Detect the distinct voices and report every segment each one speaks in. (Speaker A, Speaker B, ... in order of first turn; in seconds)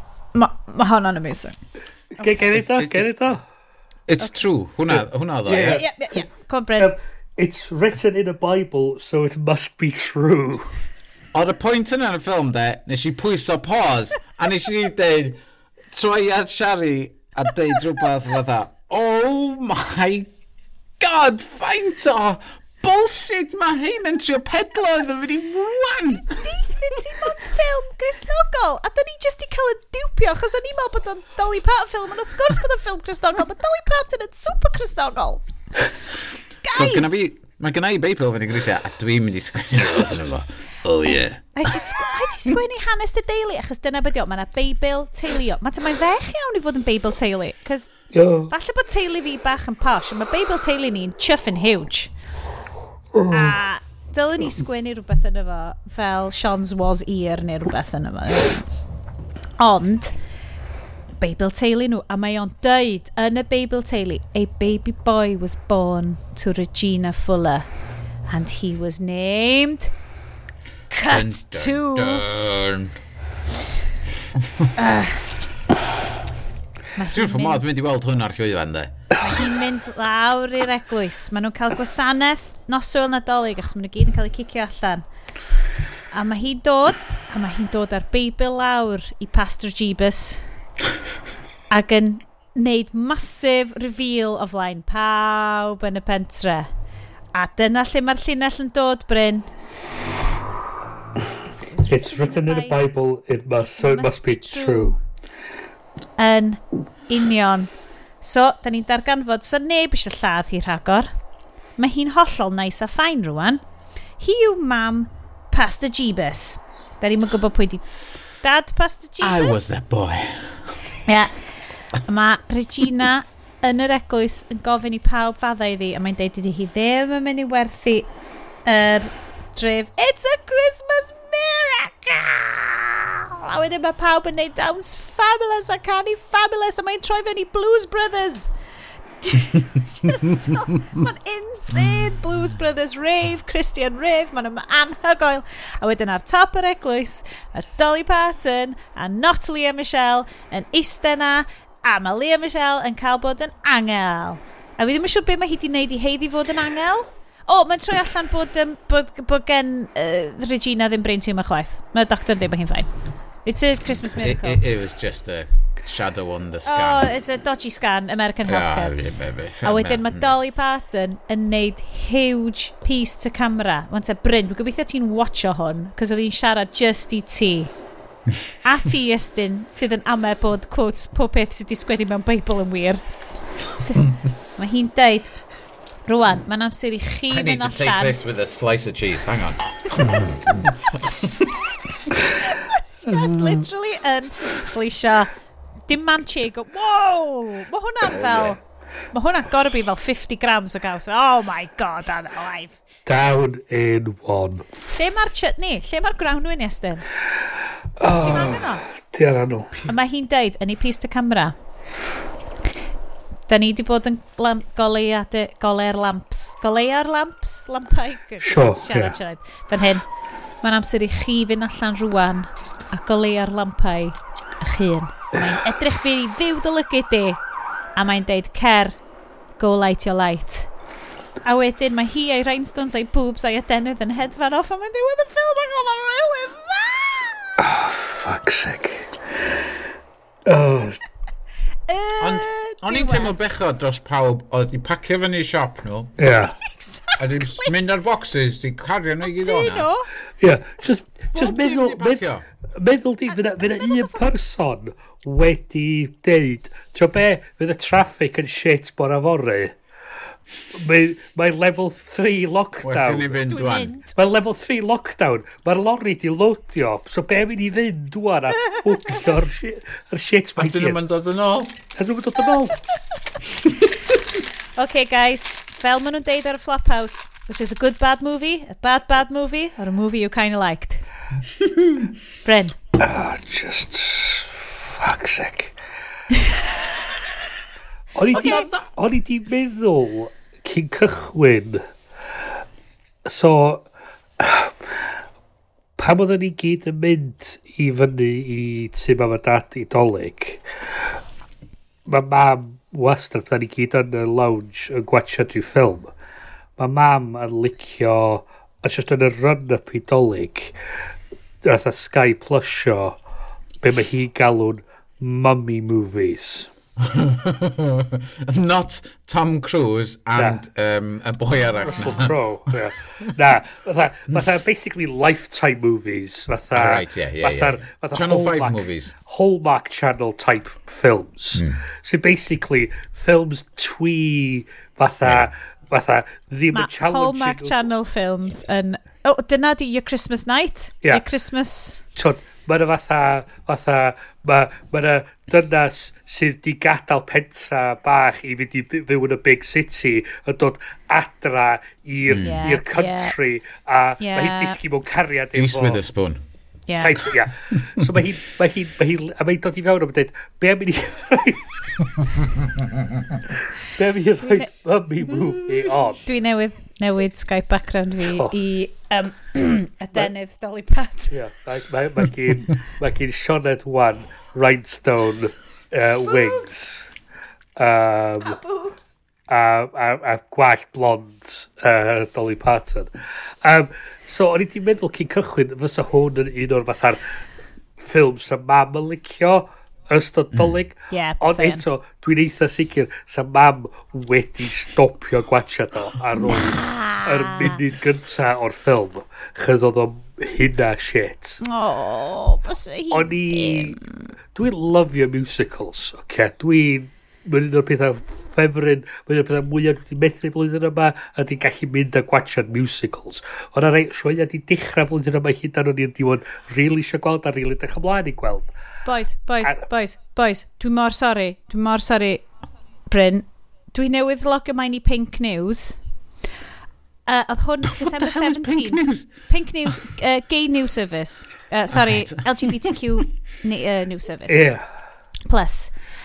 Speaker A: 0.3-1.6, 5.7-6.9, 26.1-35.4, 36.6-37.2, 41.6-52.1, 53.3-58.6, 59.6-60.1, 61.2-67.7, 68.3-69.9, 70.9-72.2, 74.8-75.3, 77.0-77.7, 79.2-85.0, 86.1-90.4, 91.7-96.7, 97.3-99.5, 101.6-102.8, 103.8-105.0, 106.2-107.7, 108.2-111.1, 111.8-113.6, 114.2-117.9, 118.4-119.7, 121.1-121.3, 122.0-128.1, 128.7-138.5, 139.2-162.9, 163.5-164.6, 166.7-168.9, 169.6-177.7, 178.6-183.0, 183.8-185.3, 186.1-188.2, 192.5-195.3, 195.9-198.6, 199.1-202.8, 204.9-207.1, 208.2-208.8, 209.9-211.6, 213.5-220.1, 220.6-227.4, 228.0-229.0, 229.6-230.7, 231.4-237.4, 241.9-243.4, 246.7-247.7, 249.2-250.1, 253.6-254.2, 263.5-264.2, 274.8-281.0, 282.4-282.8, 288.3-288.7, 336.7-342.0, 352.4-353.3, 354.2-354.8, 356.9-357.2, 366.2-371.3, 376.3-376.6, 378.4-379.1, 391.1-391.9, 396.4-397.8, 401.6-404.0, 419.1-422.4, 423.1-426.0, 427.3-434.7, 435.5-435.9
Speaker B: 2.2-3.4, 4.9-5.8, 6.8-10.7, 39.8-40.1, 48.1-48.5, 53.1-53.6, 101.9-105.0, 193.1-193.7, 203.1-204.7, 208.0-209.9, 218.4-219.2, 237.6-239.6, 240.5-241.0, 246.2-246.6, 250.4-259.7, 260.7-263.4, 264.2-271.0, 272.0-272.8, 283.0-285.7, 288.1-291.8, 293.3-293.9, 294.4-295.0, 296.0-300.6, 302.1-306.1, 306.8-310.7, 311.6-313.2, 313.8-316.7, 320.4-320.6, 321.9-337.8, 342.2-356.0, 357.0-361.7, 363.8-366.2, 368.2-368.6, 371.3-377.1, 377.8-378.6, 379.5-383.1, 383.6-387.2, 388.0-401.6, 403.1-404.0, 404.6-418.7, 434.5-434.8
Speaker C: 2.6-3.1, 4.1-5.8, 11.3-15.4, 15.9-20.3, 21.0-26.4, 36.7-41.5, 71.0-73.0, 77.0-79.2, 119.2-120.6, 164.1-167.1, 168.5-170.3, 187.3-191.4, 198.0-198.6, 242.2-246.3, 247.2-249.9, 251.3-252.4, 262.8-263.9, 270.6-271.8, 317.0-322.4, 326.7-329.1, 331.5-331.8, 335.2-335.5, 352.3-352.6, 355.5-356.4, 357.7-358.1, 427.9-429.3, 431.9-432.9